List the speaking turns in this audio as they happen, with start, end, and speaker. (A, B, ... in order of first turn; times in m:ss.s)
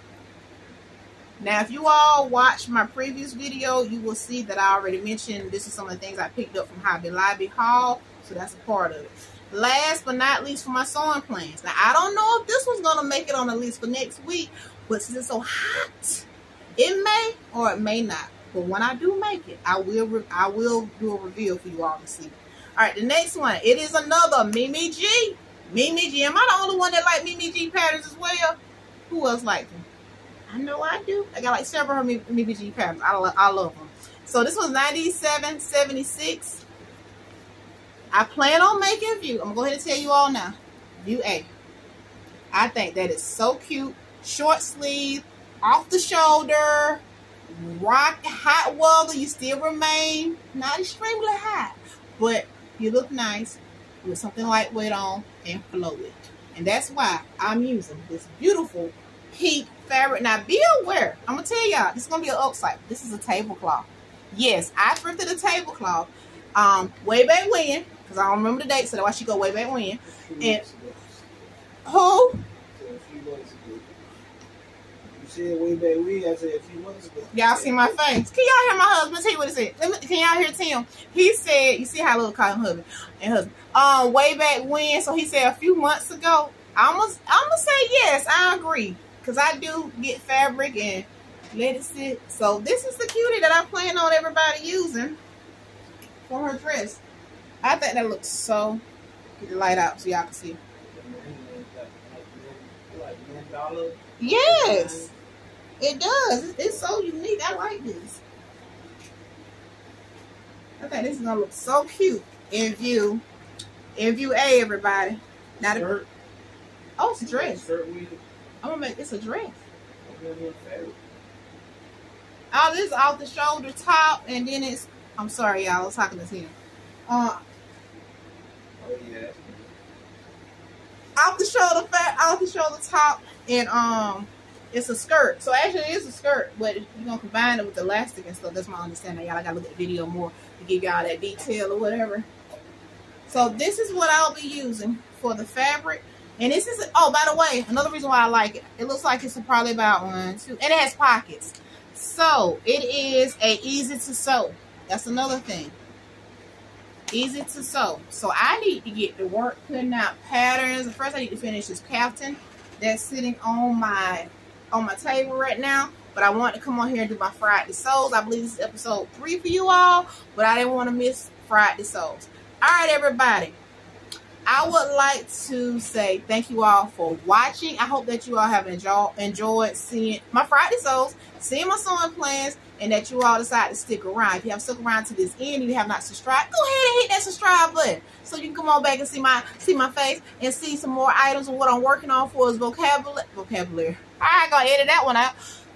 0:01.4-0:28.6 A
0:29.1-0:29.8 A
0:30.5-0:36.6 A
0:38.1-0:41.5 A
0:42.5-1:10.6 A
1:10.3-1:11.3 B
1:11.9-1:12.4 A
1:12.8-1:13.9 B
1:15.1-1:17.8 B
1:17.3-1:35.2 A
1:36.3-1:37.0 A
1:37.6-1:38.8 A
1:39.4-1:40.6 A
1:40.9-1:45.1 B
1:44.2-1:45.1 A
1:45.8-1:48.2 A
1:50.8-1:53.2 A
1:54.0-1:55.9 A
1:55.6-1:56.1 B
1:57.0-1:57.6 A
1:57.2-1:58.2 B
1:58.6-1:59.6 A
2:00.1-2:01.0 B
2:02.5-2:06.5 A
2:07.1-2:07.4 A
2:08.8-2:09.7 B
2:11.2-2:22.3 A
2:23.3-2:35.8 A
2:37.1-2:53.6 A
2:54.5-3:15.3 A